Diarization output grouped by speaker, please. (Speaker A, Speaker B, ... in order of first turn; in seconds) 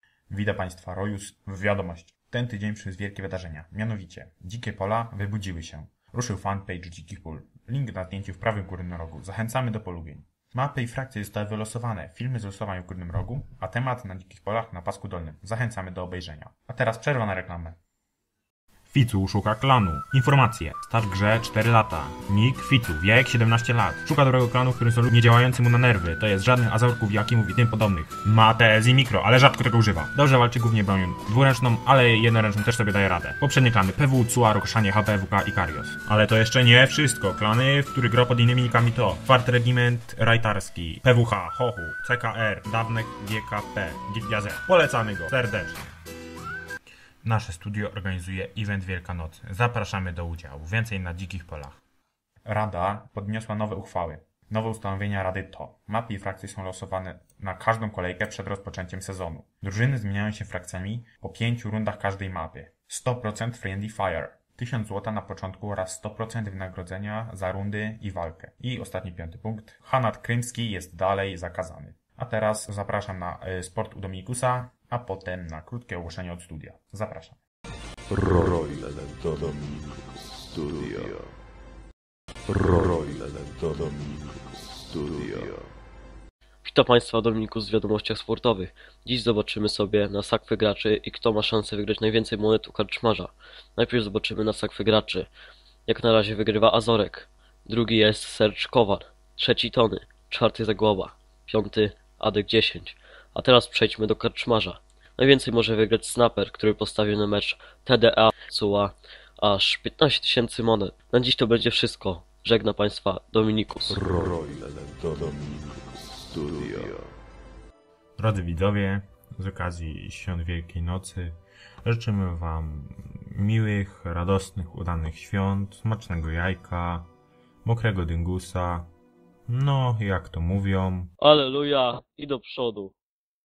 Speaker A: 0.3-17.8, 18.9-45.9, 47.2-51.8, 52.5-77.4, 118.2-127.1, 127.6-128.9, 129.5-131.1
Speaker B: 78.1-81.2, 82.5-85.6, 113.9-117.0
Speaker C: 86.6-95.3, 95.9-114.0, 131.2-132.9